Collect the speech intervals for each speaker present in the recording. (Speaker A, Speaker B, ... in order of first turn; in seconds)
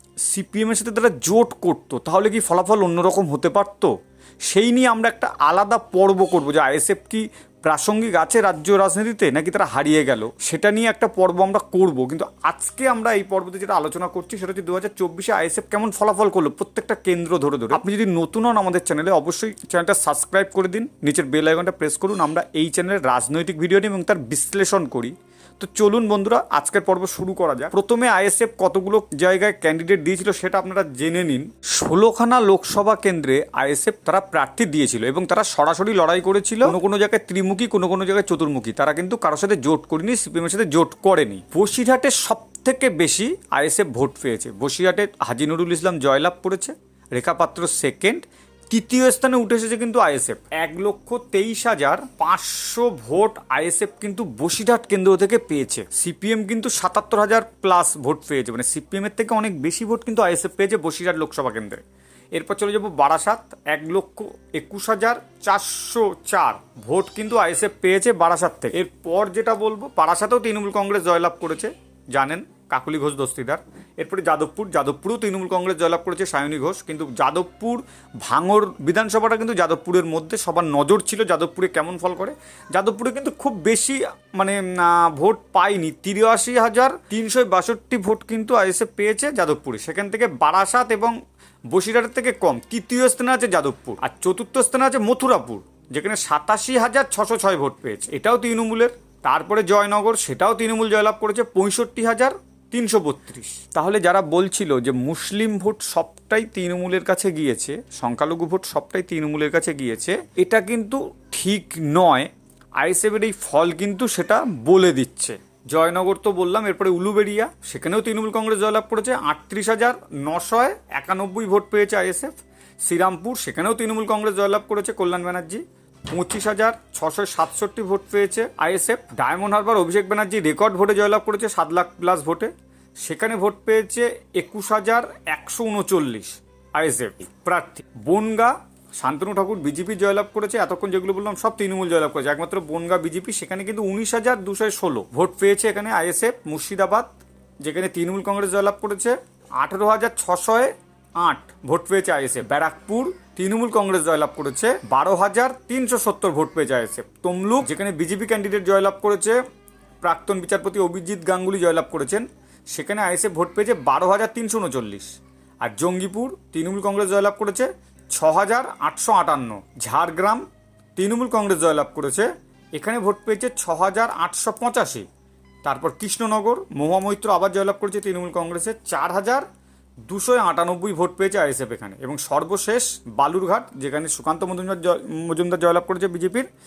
Speaker A: 0.2-3.9, 4.5-61.8, 62.3-91.1, 91.7-159.4, 160.0-170.4, 170.9-175.1, 175.6-179.4, 180.1-186.5